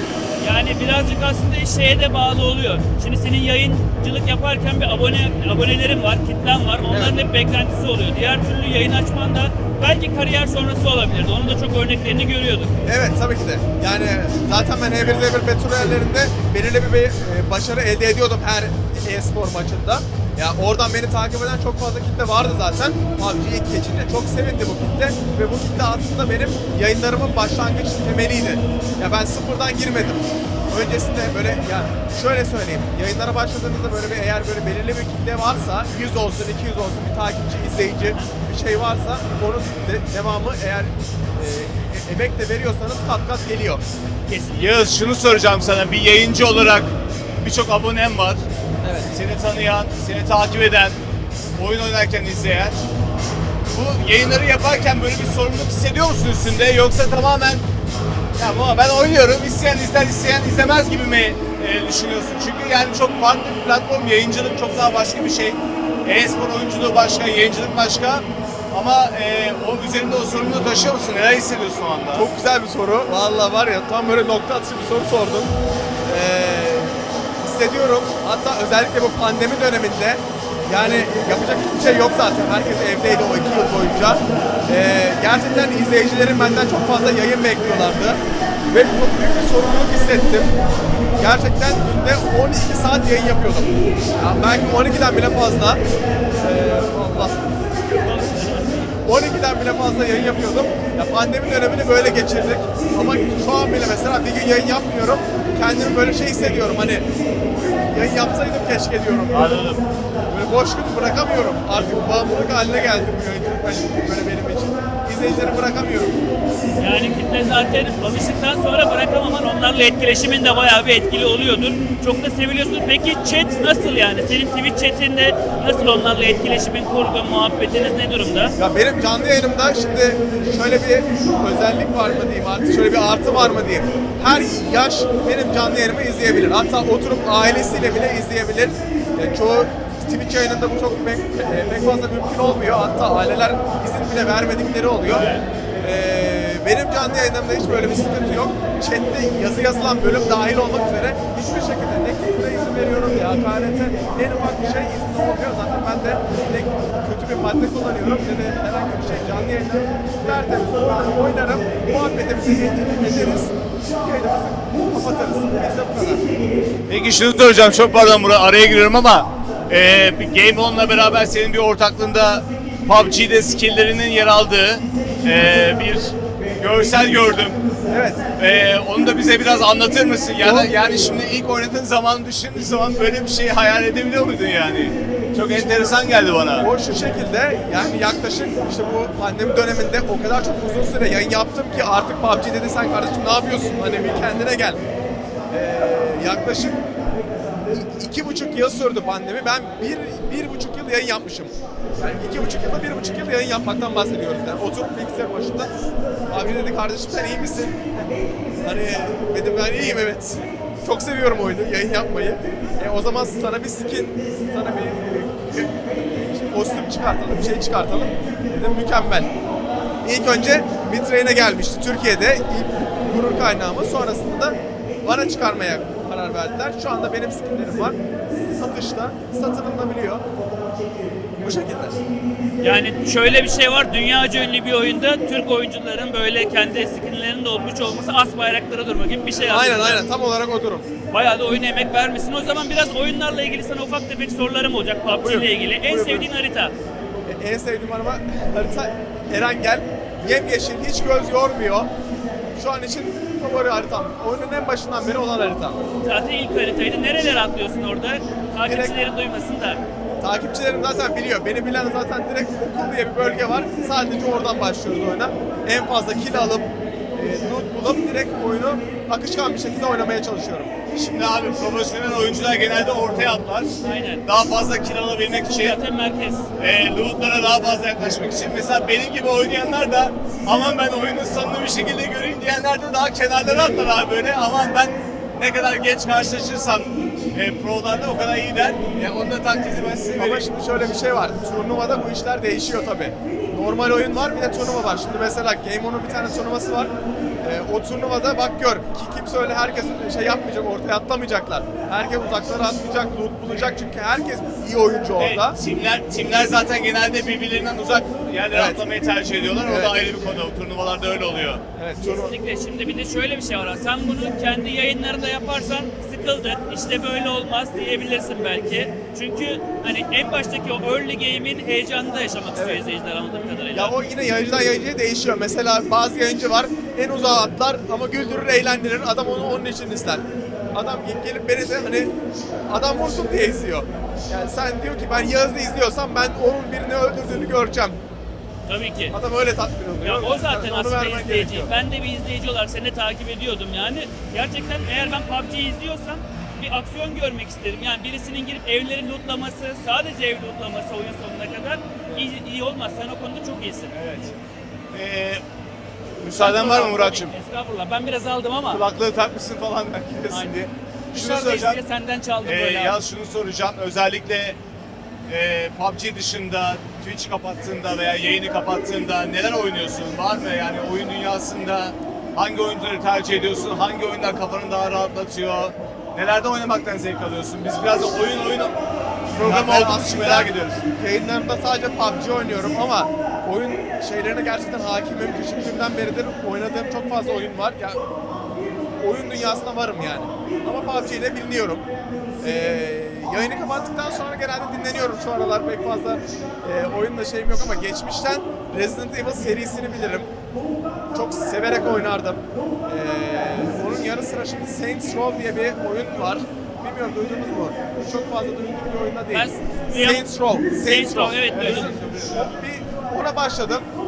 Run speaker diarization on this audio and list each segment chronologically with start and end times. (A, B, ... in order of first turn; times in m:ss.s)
0:00.4-0:12.8 A
0:06.9-0:07.1 B
0:12.9-0:43.8 B
0:38.0-0:38.3 A
0:44.3-0:45.0 A
0:44.5-0:48.4 C
0:48.8-0:49.1 B
0:49.1-0:51.0 C
0:51.6-0:52.8 C
0:53.7-0:57.6 C
0:58.4-1:12.3 C
1:12.1-1:15.6 B
1:16.1-1:30.5 B
1:31.2-1:35.8 B
1:36.4-1:37.6 B
1:38.0-1:39.0 A
1:39.0-1:49.6 B
1:49.3-1:49.8 C
1:50.3-1:56.2 B
1:56.8-2:08.6 A
2:08.6-2:25.3 B
2:25.1-2:25.4 C
2:25.8-2:46.2 B
2:46.9-2:57.6 C
2:57.9-2:58.2 B
2:58.4-3:06.7 C
3:00.4-3:00.7 B
3:05.6-3:05.9 B
3:06.5-3:14.8 B
3:15.5-3:16.8 B
3:17.6-3:25.7 B
3:26.3-3:27.8 B
3:28.6-3:39.3 B
3:40.0-3:50.2 B
3:51.3-3:52.0 B
3:52.6-4:00.0 A
3:59.4-4:00.9 B
4:01.1-4:06.7 A
4:05.1-4:06.3 B
4:07.3-4:11.9 B
4:12.6-4:15.8 B
4:16.0-4:19.8 A
4:18.6-4:19.0 B
4:20.2-4:30.8 B
4:30.9-4:33.7 C
4:33.8-4:34.2 A
4:34.2-4:35.8 C
4:35.4-4:36.5 A
4:36.6-4:50.5 C
4:50.2-5:05.6 B
5:05.2-5:11.6 C
5:08.5-5:08.8 B
5:09.6-5:10.0 B
5:11.8-5:12.4 B
5:12.0-5:23.9 A
5:22.6-5:22.8 B
5:23.7-5:32.1 B
5:32.7-5:38.0 B
5:38.7-5:39.2 A
5:39.1-5:41.7 B
5:40.0-5:54.0 A
5:53.9-5:54.3 C
5:54.9-5:55.4 C
5:56.2-5:57.4 C
5:56.3-5:58.8 A
5:58.7-6:01.8 C
6:00.3-6:00.6 A
6:01.1-6:03.0 A
6:02.4-6:04.6 C
6:05.3-6:18.8 C
6:19.3-6:20.9 C
6:19.4-6:28.0 B
6:29.0-6:31.8 B
6:32.4-6:40.3 B
6:41.1-6:53.8 B
6:49.3-6:51.9 A
6:51.5-6:52.5 C